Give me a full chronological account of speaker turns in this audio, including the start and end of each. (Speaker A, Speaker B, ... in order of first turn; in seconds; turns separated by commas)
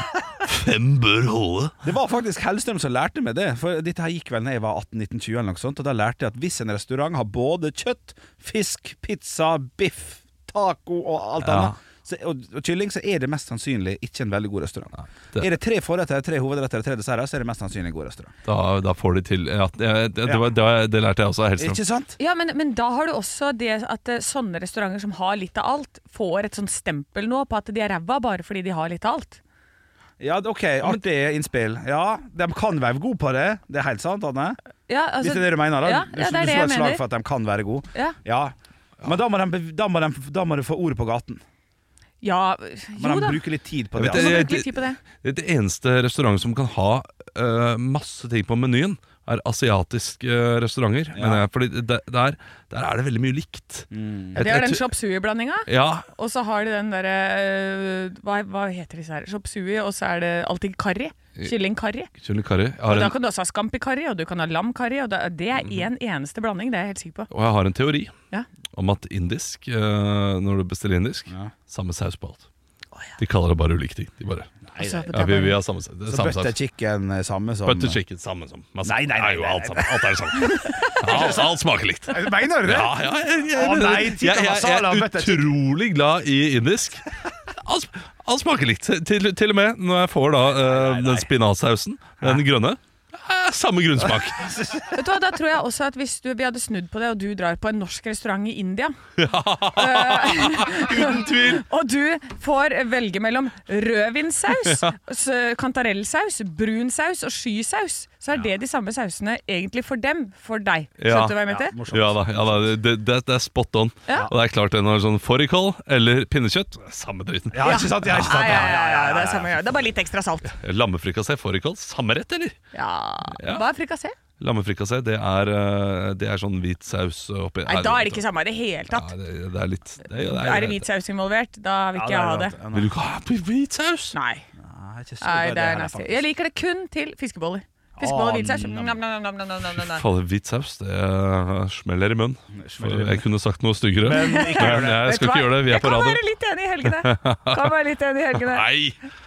Speaker A: 0.4-1.7, Speaker B: 1.8-18.3, Speaker A: 11.4-11.7, Speaker A: 18.4-21.8, Speaker B: 20.2-20.5, Speaker B: 21.6-22.2, Speaker C: 22.2-29.4, Speaker B: 30.2-34.6, Speaker C: 34.9-37.0, Speaker B: 35.2-41.4, Speaker C: 42.2-43.4, Speaker B: 43.0-44.4, Speaker A: 44.0-54.9, Speaker C: 44.0-45.0, Speaker B: 51.1-51.4, Speaker B: 53.9-54.4, Speaker C: 54.4-62.1, Speaker A: 55.7-56.1, Speaker A: 62.2-63.1, Speaker C: 62.9-67.3, Speaker A: 67.3-68.1, Speaker A: 68.7-72.5, Speaker A: 73.2-74.6, Speaker B: 74.7-75.1, Speaker C: 74.8-75.6, Speaker A: 75.1-76.5, Speaker B: 76.1-78.0, Speaker A: 77.7-87.1, Speaker B: 78.8-80.1, Speaker C: 80.5-81.4, Speaker B: 81.0-81.5, Speaker B: 82.1-83.0, Speaker B: 83.5-85.5, Speaker A: 87.6-94.5, Speaker B: 90.6-91.3, Speaker B: 94.0-95.0, Speaker C: 94.9-99.0, Speaker A: 99.2-101.6, Speaker C: 99.7-111.8, Speaker A: 104.5-104.8, Speaker A: 111.0-111.4, Speaker B: 111.5-112.7, Speaker A: 111.9-118.7, Speaker B: 117.5-119.6, Speaker C: 117.6-120.5, Speaker A: 120.5-122.5, Speaker C: 122.7-124.1, Speaker A: 123.3-123.7, Speaker A: 124.4-128.2, Speaker C: 127.7-129.1, Speaker A: 128.9-130.8, Speaker C: 130.1-132.5, Speaker B: 131.9-132.9, Speaker A: 132.7-134.2, Speaker C: 134.1-134.4, Speaker B: 134.6-136.2, Speaker C: 135.2-140.0, Speaker B: 138.0-139.0, Speaker A: 139.8-146.2, Speaker B: 142.5-143.2, Speaker B: 144.0-145.2, Speaker C: 144.1-148.7, Speaker A: 146.8-147.7, Speaker A: 148.3-149.0